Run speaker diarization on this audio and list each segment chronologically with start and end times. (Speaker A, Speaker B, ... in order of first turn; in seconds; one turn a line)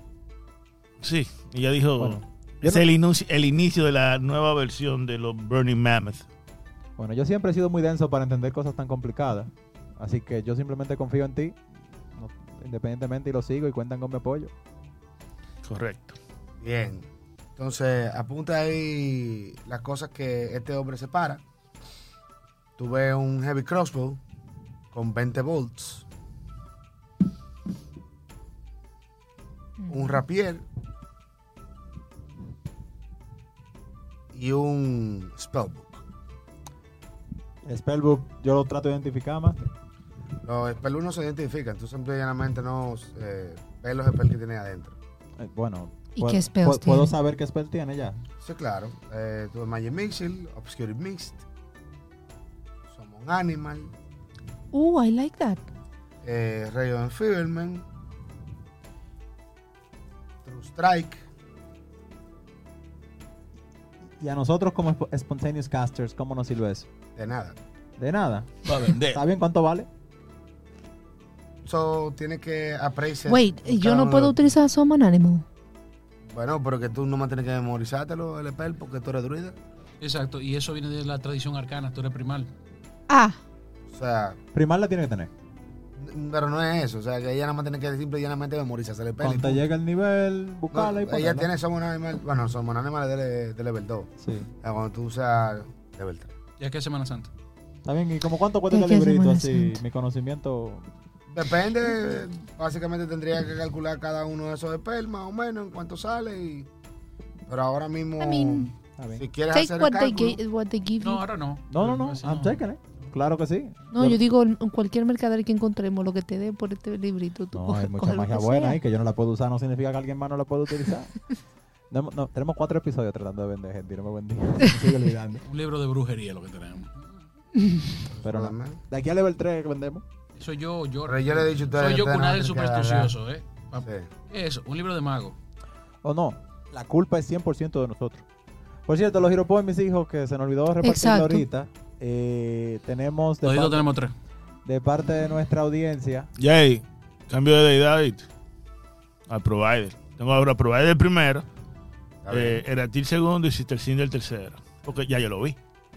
Speaker A: 1.0-6.2
Speaker B: 2.0-2.8
Speaker B: 7.0-11.6
Speaker B: 12.1-14.5
Speaker A: 15.6-16.2
Speaker C: 16.6-21.4
Speaker C: 22.8-24.2
Speaker C: 24.9-26.1
Speaker C: 29.9-30.6
Speaker C: 34.3-36.0
Speaker B: 37.6-39.6
Speaker C: 40.4-45.0
Speaker B: 45.4-48.2
Speaker D: 46.2-47.1
Speaker C: 48.4-51.4
Speaker C: 52.9-53.9
Speaker D: 54.7-55.7
Speaker C: 56.2-57.9
Speaker C: 60.4-61.2
Speaker B: 64.2-66.9
Speaker C: 67.2-67.6
Speaker B: 68.0-69.9
Speaker A: 68.6-69.2
Speaker C: 71.6-74.4
Speaker D: 73.3-75.4
Speaker C: 76.3-79.6
Speaker E: 80.0-82.5
Speaker D: 83.1-83.4
Speaker C: 83.9-84.4
Speaker B: 84.5-85.3
Speaker C: 86.0-89.6
Speaker B: 89.2-91.5
Speaker C: 90.7-94.1
Speaker B: 94.2-94.5
Speaker C: 94.6-96.3
Speaker E: 96.6-97.3
Speaker B: 97.8-100.9
Speaker D: 98.7-99.8
Speaker C: 101.3-106.7
Speaker C: 107.5-110.4
Speaker D: 108.2-108.7
Speaker B: 109.0-109.2
Speaker D: 109.5-111.2
Speaker E: 111.0-112.6
Speaker B: 111.7-114.2
Speaker D: 113.9-118.8
Speaker B: 117.5-121.2
Speaker B: 121.9-125.4
Speaker E: 125.4-127.2
Speaker C: 128.1-128.8
Speaker B: 128.2-130.0
Speaker E: 130.3-135.3
Speaker C: 131.1-133.1
Speaker C: 133.8-134.1
Speaker B: 136.0-138.2
Speaker B: 138.9-143.8
Speaker D: 140.8-141.4
Speaker E: 143.4-144.1
Speaker B: 144.6-146.3
Speaker A: 146.4-148.2
Speaker A: 149.3-151.4
Speaker C: 152.2-152.6
Speaker A: 152.3-155.6